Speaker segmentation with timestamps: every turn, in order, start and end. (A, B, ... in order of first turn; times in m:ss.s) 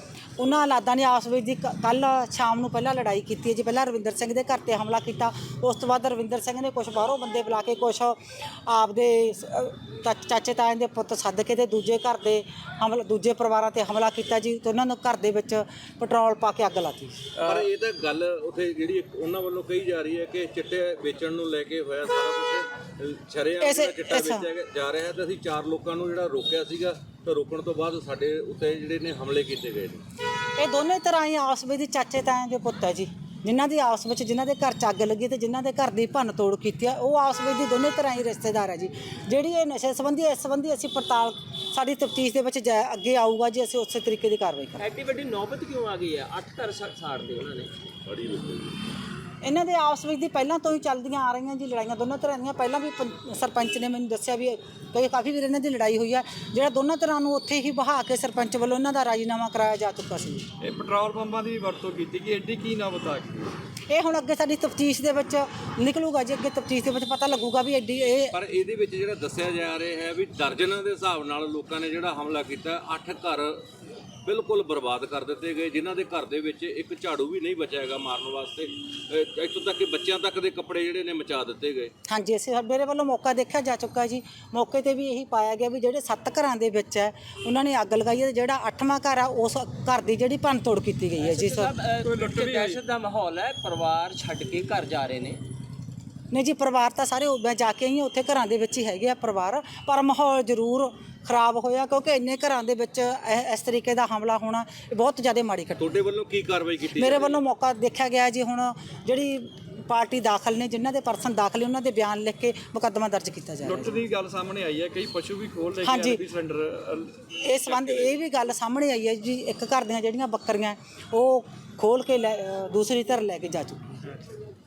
0:00.4-0:17.2 A
0:17.4-0:17.7 B
0:17.4-0:30.0 C
0:23.6-0:24.5 A
0:30.6-0:44.8 A
0:44.8-0:47.7 D
0:48.0-0:48.7 C
0:49.4-1:00.4 A
1:00.6-1:03.5 B
1:03.9-1:08.4 A
1:08.3-1:13.5 C
1:14.2-1:21.9 C
1:22.1-1:31.7 A
1:31.2-1:35.4 D
1:32.0-1:32.8 B
1:36.3-1:46.0 A
1:45.8-1:47.4 C
1:46.8-1:54.0 A
1:53.6-1:58.1 B
1:55.8-1:56.2 A
1:57.4-2:03.9 A
2:04.0-2:04.4 B